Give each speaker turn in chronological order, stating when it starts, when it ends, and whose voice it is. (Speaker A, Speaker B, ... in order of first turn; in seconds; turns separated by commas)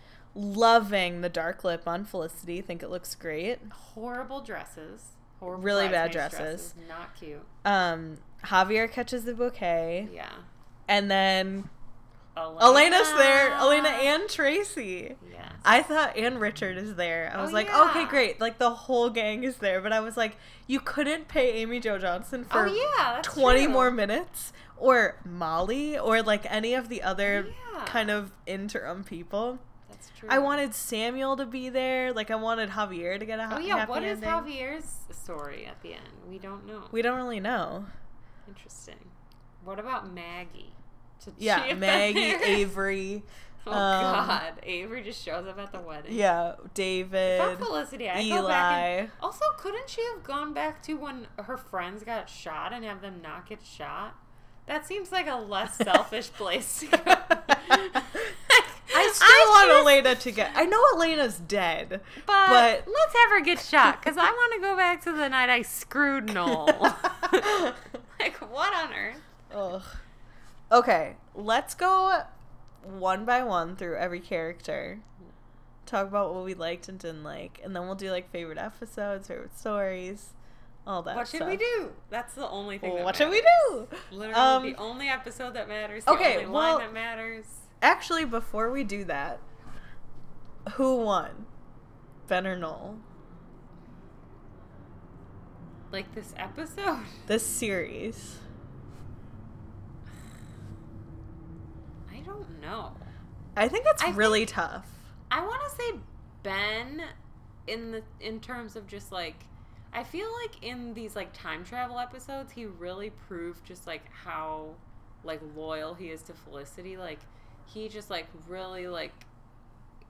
Speaker A: 0.3-3.7, Speaker B: 3.7-7.5, Speaker A: 5.5-6.7, Speaker A: 7.6-10.1, Speaker B: 10.0-10.5, Speaker A: 10.9-11.7, Speaker B: 12.3-14.1, Speaker A: 12.6-29.6, Speaker B: 15.2-15.7, Speaker B: 17.3-18.3, Speaker B: 22.5-24.0, Speaker B: 27.2-28.1, Speaker B: 29.9-30.6, Speaker A: 30.3-34.5, Speaker B: 33.5-37.0, Speaker A: 36.9-37.9, Speaker B: 38.5-42.7, Speaker A: 41.4-44.4, Speaker B: 43.6-46.2, Speaker A: 46.1-49.1, Speaker B: 47.2-60.2, Speaker A: 57.5-58.2, Speaker A: 58.9-62.9, Speaker B: 62.2-69.3, Speaker A: 66.4-67.7, Speaker A: 69.5-70.0, Speaker A: 70.7-75.0, Speaker A: 75.8-80.3, Speaker A: 80.8-81.6, Speaker B: 81.1-87.7, Speaker A: 82.8-84.8, Speaker A: 86.0-86.9, Speaker A: 87.8-89.4, Speaker A: 90.7-91.5, Speaker A: 92.3-93.0, Speaker B: 95.9-97.2, Speaker A: 97.3-98.4, Speaker B: 102.1-103.1, Speaker A: 103.5-105.1, Speaker B: 104.0-104.5, Speaker B: 105.3-107.1, Speaker B: 107.7-119.3